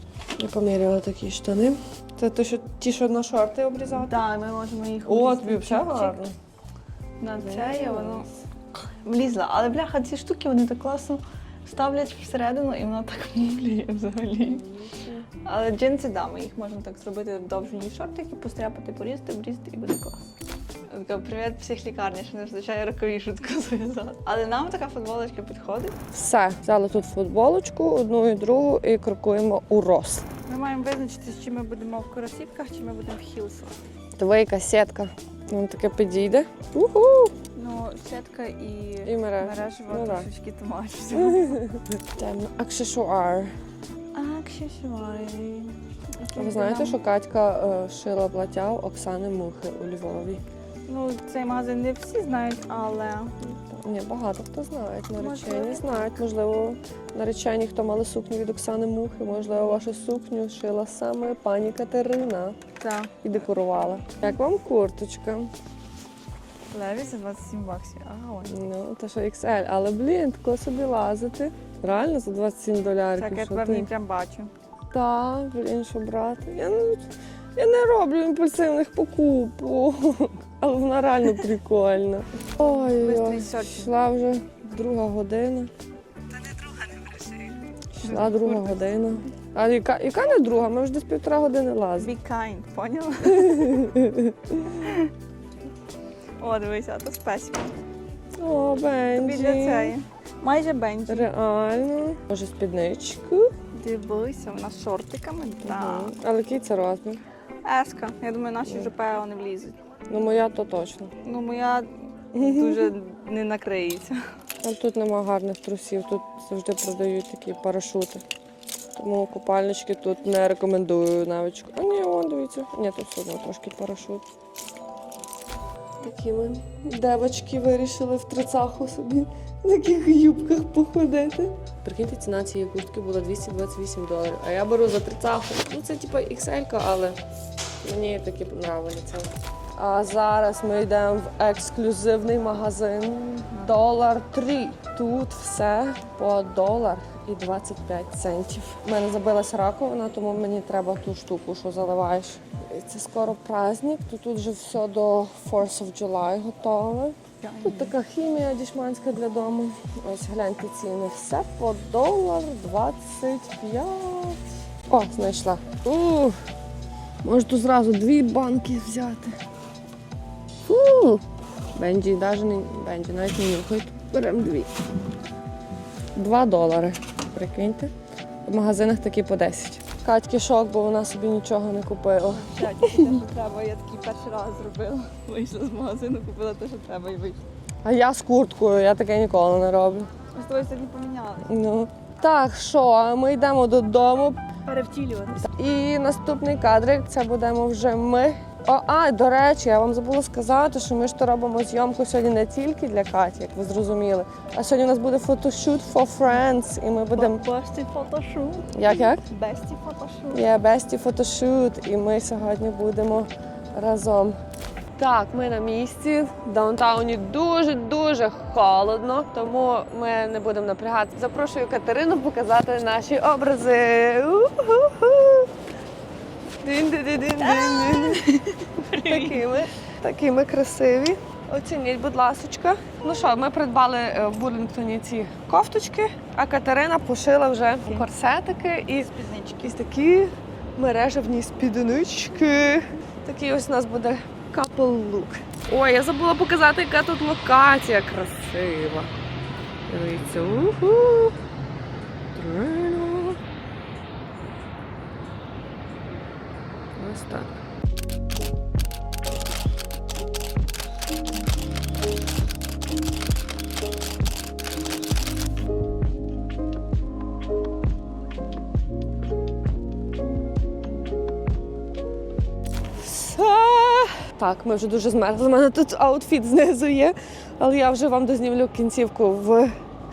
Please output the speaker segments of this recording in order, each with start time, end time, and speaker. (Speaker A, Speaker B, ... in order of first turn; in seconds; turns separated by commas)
Speaker A: 0.3-4.2, Speaker B: 3.9-6.2, Speaker A: 5.0-6.3, Speaker B: 7.2-14.7, Speaker A: 7.3-8.4, Speaker A: 14.4-15.3, Speaker B: 15.4-20.3, Speaker B: 20.9-25.9, Speaker A: 26.1-30.2, Speaker B: 30.4-33.8, Speaker A: 34.2-37.3, Speaker B: 37.5-41.6, Speaker A: 39.0-40.3, Speaker A: 41.2-43.5, Speaker B: 44.1-47.0, Speaker A: 46.3-50.4, Speaker B: 50.9-53.3, Speaker A: 53.4-62.6, Speaker B: 55.1-56.2, Speaker B: 62.8-63.2, Speaker A: 63.2-65.5, Speaker B: 66.7-68.6, Speaker A: 68.5-73.9, Speaker B: 73.2-74.5, Speaker A: 74.9-85.7, Speaker B: 82.6-83.9, Speaker B: 86.3-89.1, Speaker A: 87.9-92.1, Speaker B: 92.0-93.9, Speaker A: 93.3-94.7, Speaker B: 94.7-95.1, Speaker B: 96.4-97.8, Speaker A: 98.3-100.0, Speaker B: 99.1-101.3, Speaker A: 101.1-103.5, Speaker B: 103.7-106.2, Speaker A: 105.6-107.2, Speaker B: 107.6-109.8, Speaker A: 110.1-111.1, Speaker B: 111.2-114.2, Speaker A: 112.3-112.9, Speaker A: 114.6-118.2, Speaker A: 119.0-124.2, Speaker A: 126.0-137.2, Speaker A: 137.8-166.4, Speaker B: 157.4-157.9, Speaker A: 167.2-169.4, Speaker A: 170.7-171.2, Speaker A: 171.7-174.7, Speaker A: 176.1-177.9, Speaker A: 178.4-183.2, Speaker B: 182.3-187.4, Speaker A: 187.8-190.1, Speaker B: 190.3-191.5, Speaker A: 191.4-194.4, Speaker B: 194.7-195.4, Speaker A: 195.3-207.4, Speaker B: 207.1-210.5, Speaker A: 208.7-209.2, Speaker A: 210.3-214.4, Speaker A: 215.0-225.5, Speaker A: 226.6-228.2, Speaker B: 227.4-229.5, Speaker A: 228.9-249.1, Speaker B: 239.0-239.8, Speaker A: 249.9-251.4, Speaker A: 252.3-253.4, Speaker A: 256.9-257.5, Speaker A: 273.0-279.7